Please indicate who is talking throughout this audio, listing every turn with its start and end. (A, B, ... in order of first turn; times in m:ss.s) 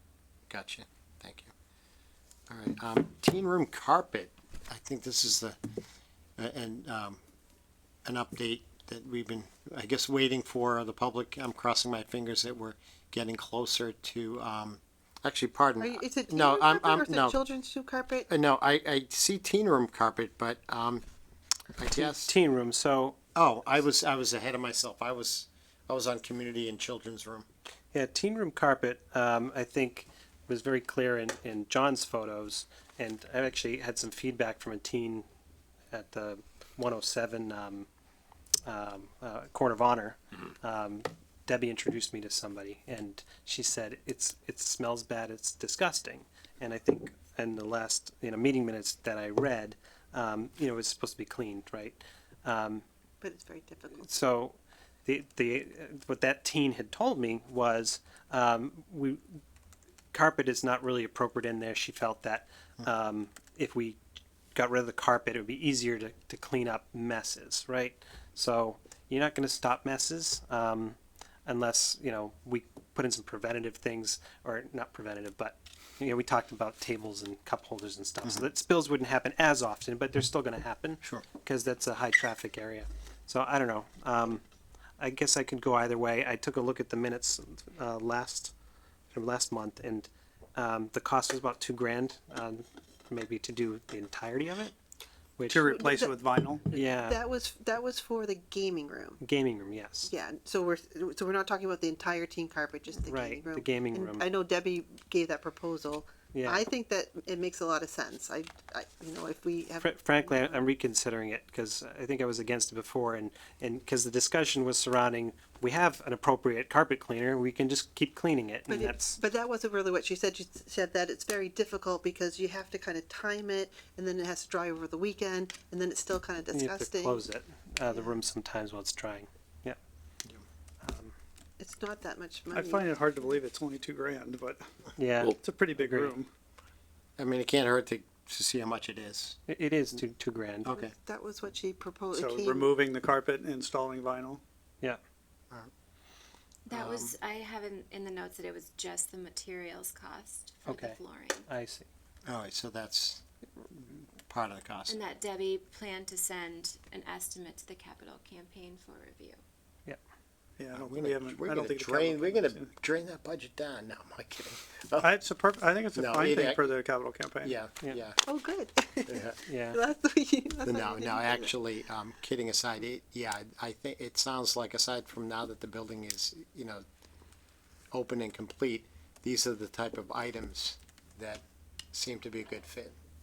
0:00.5-0:01.5 A
0:02.5-0:05.6 A
0:06.4-0:07.2 A
0:08.0-0:17.4 A
0:15.8-0:18.3 B
0:18.3-0:21.0 A
0:21.8-0:22.3 A
0:22.0-0:23.2 C
0:23.3-0:27.4 A
0:27.9-0:35.2 C
0:35.9-0:37.9 C
0:38.6-0:52.8 C
0:53.2-0:54.1 B
0:54.0-0:59.4 C
1:00.1-1:04.0 C
1:04.5-1:24.4 C
1:25.0-1:28.5 C
1:29.1-1:34.7 C
1:35.4-1:35.7 C
1:35.5-1:36.7 D
1:35.6-1:36.2 B
1:36.7-1:37.2 C
1:36.7-1:39.2 B
1:39.2-1:40.1 C
1:40.0-1:50.7 B
1:43.0-1:44.2 C
1:46.3-1:46.6 C
1:49.8-1:59.2 C
1:58.7-2:07.3 B
2:06.5-2:09.8 C
2:07.9-2:08.2 B
2:10.8-2:11.1 C
2:11.6-2:13.4 B
2:12.5-2:14.7 D
2:15.0-2:16.1 C
2:15.4-2:16.3 D
2:17.2-2:19.4 A
2:19.5-2:20.8 C
2:20.6-2:20.9 A
2:20.8-2:22.7 B
2:22.1-2:24.4 D
2:26.7-2:31.5 E
2:26.7-2:27.1 A
2:30.6-2:31.9 C
2:32.2-2:33.2 A
2:34.3-2:35.0 A
2:34.9-2:39.4 E
2:40.6-2:42.7 D
2:40.7-2:45.1 A
2:45.0-2:47.6 D
2:45.9-2:46.6 A
2:47.4-2:48.2 A
2:48.2-2:51.5 B
2:49.1-2:49.4 A
2:49.4-2:49.8 C
2:50.6-2:56.8 A
2:57.9-3:02.9 A